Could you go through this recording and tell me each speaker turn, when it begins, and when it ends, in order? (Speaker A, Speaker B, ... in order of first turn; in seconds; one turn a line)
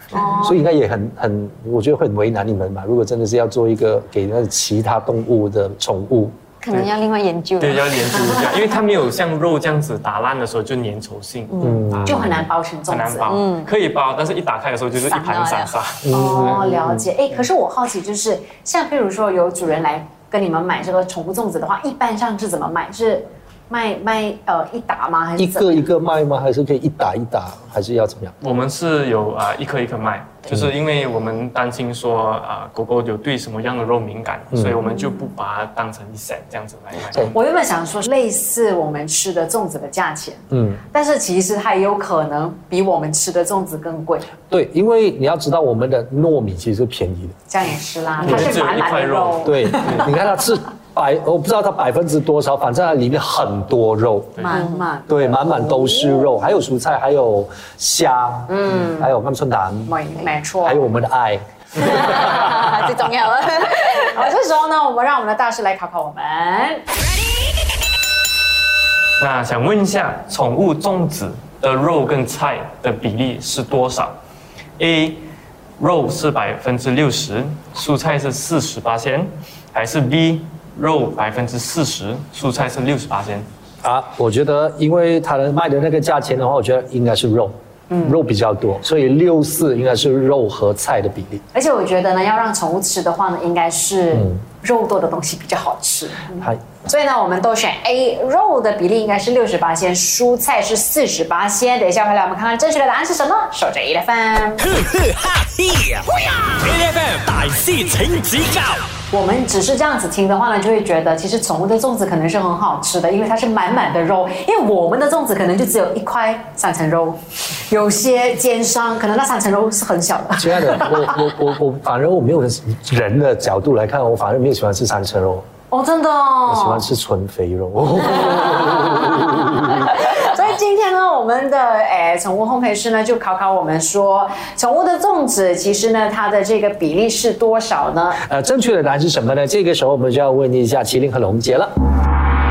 Speaker A: 0.1-0.5
Speaker B: 0.3-6.4
Speaker C: 6.6-8.6
Speaker D: 7.6-16.6
Speaker C: 11.5-11.8
Speaker B: 11.6-12.5
Speaker A: 12.1-13.3
Speaker C: 13.3-13.7
Speaker C: 15.0-15.7
Speaker B: 16.0-16.9
Speaker A: 16.1-25.8
Speaker B: 25.4-28.3
Speaker D: 28.4-37.3
Speaker B: 34.5-34.8
Speaker A: 37.3-44.3
Speaker B: 40.5-40.8
Speaker B: 44.5-47.3
Speaker A: 47.5-50.1
Speaker D: 48.2-50.1
Speaker B: 49.4-54.5
Speaker A: 54.4-56.3
Speaker C: 54.5-54.8
Speaker B: 55.1-60.0
Speaker A: 58.5-59.1
Speaker A: 59.9-60.9
Speaker B: 60.6-61.4
Speaker C: 61.8-64.2
Speaker A: 64.1-66.8
Speaker D: 69.2-74.2
Speaker D: 74.8-75.2
Speaker D: 75.8-83.5
Speaker B: 83.8-91.4
Speaker A: 87.9-88.2
Speaker A: 91.5-104.7
Speaker E: 104.6-108.8
Speaker A: 109.1-121.2
Speaker B: 120.4-125.5
Speaker A: 125.7-126.9
Speaker B: 126.5-129.9
Speaker A: 129.7-138.2
Speaker B: 138.2-141.7